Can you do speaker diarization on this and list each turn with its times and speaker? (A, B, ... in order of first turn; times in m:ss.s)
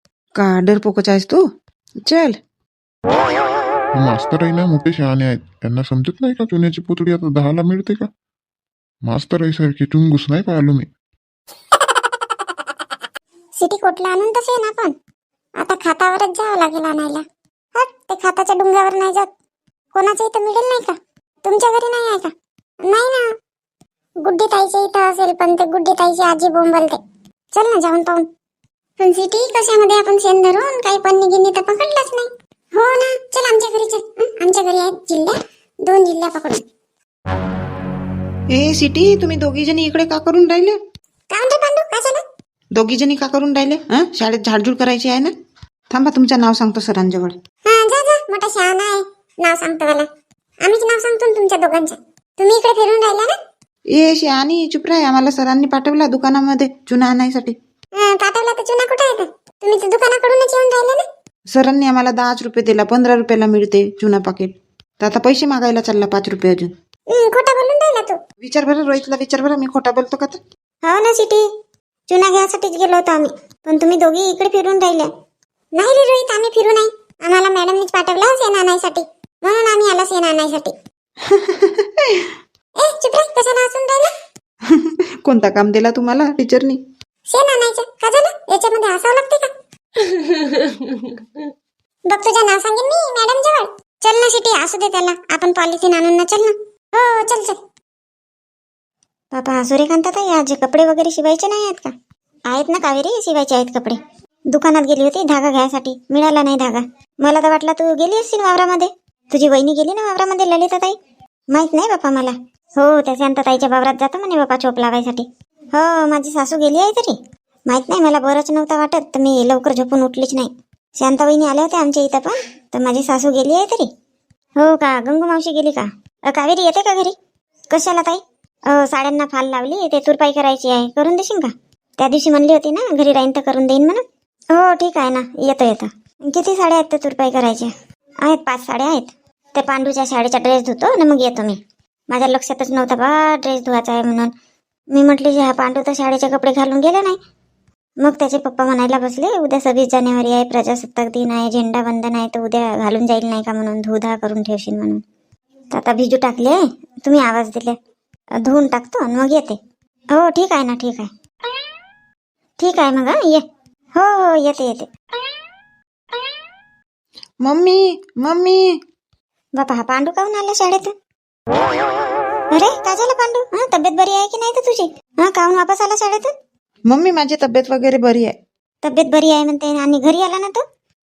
0:00.4-0:01.4 A
0:02.0-0:02.4 A
0:03.9-0:08.1 B
0:09.0-0:10.9 B
0:11.9-0:12.2 C
0:13.6-0:14.9 C
0:15.6-0:17.2 C
0:17.7-0:19.3 C
0:19.9-0:23.3 C
0:24.2-0:27.0 C
0:27.5-0:28.3 C
0:29.0-0:36.6 C
0:38.5-0:40.8 A
0:41.3-0:42.2 C
0:42.7-0:45.3 A
0:45.9-0:47.4 A
0:47.6-0:50.1 C
0:50.6-0:53.4 C
0:53.9-0:57.5 A
0:57.9-1:01.0 C
1:01.5-1:06.7 A
1:07.1-1:08.2 C
1:08.4-1:10.4 A
1:10.8-1:11.4 C
1:12.1-1:15.1 C
1:15.7-1:20.7 C
1:21.3-1:22.3 A
1:22.8-1:24.1 C
1:24.6-1:26.8 A
1:27.3-1:30.5 C
1:32.1-1:37.6 C
1:39.3-1:41.9 C
1:42.5-1:44.0 C
1:44.5-1:51.0 C
1:51.5-2:03.9 C
2:04.6-2:07.2 C
2:07.7-2:21.6 C
2:22.1-2:24.3 C
2:24.9-2:27.2 C
2:28.0-2:35.0 C
2:35.7-2:37.7 C
2:38.4-2:39.6 C
2:40.1-2:41.1 C
2:42.6-2:43.4 C
2:44.0-2:44.9 C
2:47.4-2:48.6 A
2:49.6-2:50.9 C
2:52.5-2:56.3 C
2:56.9-2:58.3 A
2:58.8-3:00.6 C